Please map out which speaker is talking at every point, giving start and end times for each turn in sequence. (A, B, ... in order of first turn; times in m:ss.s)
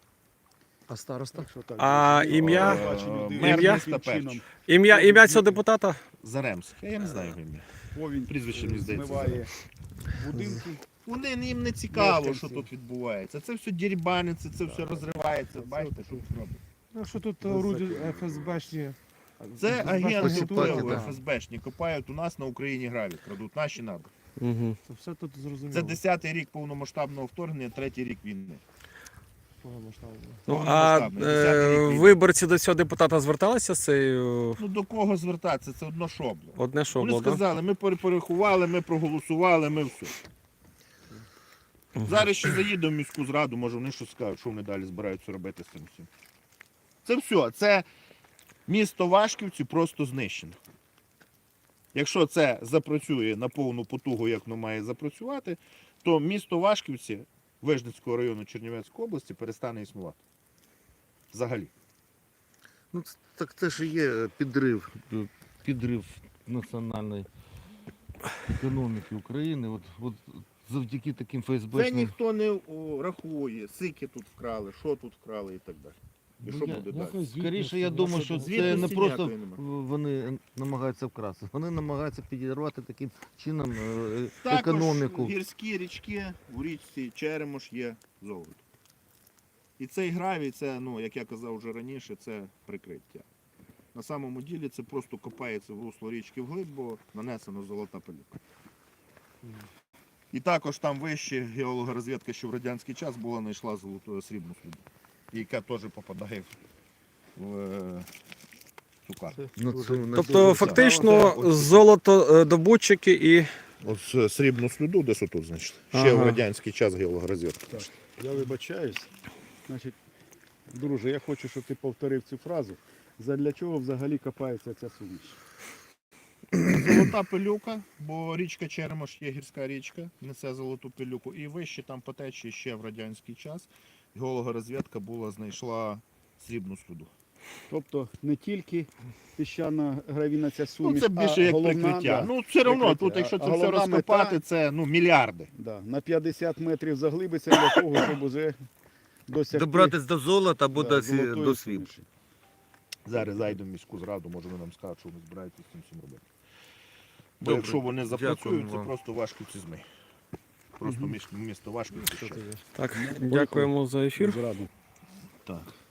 0:00.9-0:01.5 A
0:01.3-0:05.6 B
0:01.8-0:02.8 C
0:02.3-0:04.4 D
0:03.4-0:03.8 C
0:04.6-0:06.0 C
0:06.2-0:07.6 D
0:07.9-0:09.5 B
0:08.3-0:09.4 D
0:10.1-0:10.8 B
0:11.0-0:16.6 D
0:11.9-0:12.7 B
0:14.7-0:16.3 B
0:16.9-0:19.0 A
0:17.4-0:18.6 B
0:19.4-0:20.1 B
0:19.6-0:24.1 D
0:19.7-0:21.2 A
0:20.1-0:21.0 E
0:24.4-0:24.8 C
0:24.9-0:26.0 A
0:25.7-0:28.6 D
0:29.6-0:30.4 A
0:30.5-0:34.6 C
0:30.5-0:32.2 D
0:34.6-0:40.1 D
0:36.6-0:37.4 C
0:42.0-0:46.1 D
0:47.0-0:47.9 D
0:48.7-0:50.6 D
0:51.9-1:00.2 D
1:01.3-1:01.7 D
1:02.9-1:07.3 E
1:08.5-1:12.1 E
1:11.7-1:17.3 D
1:16.4-1:25.3 E
1:17.1-1:18.9 A
1:18.3-1:19.6 D
1:24.4-1:28.6 D
1:29.8-1:33.3 D
1:33.9-1:38.4 D
1:40.3-1:46.5 D
1:47.4-1:48.1 D
1:49.0-1:49.4 D
1:49.3-1:51.5 B
1:49.6-1:51.5 E
1:50.1-1:53.5 C
1:50.5-1:50.8 D
1:53.8-1:57.9 D
1:55.9-1:56.4 C
1:57.7-1:59.1 B
1:59.7-2:00.0 B
2:00.7-2:05.4 B
2:06.6-2:17.1 D
2:17.7-2:24.4 B
2:20.8-2:25.5 D
2:25.5-2:28.6 B
2:29.3-2:30.0 B
2:29.5-2:31.9 E
2:30.7-2:32.0 B
2:33.0-2:36.2 D
2:33.1-2:33.6 B
2:37.4-2:39.9 D
2:37.4-2:38.9 E
2:40.8-2:42.5 D
2:40.8-2:41.1 B
2:42.0-2:42.6 E
2:42.8-2:44.4 C
2:42.9-2:44.7 B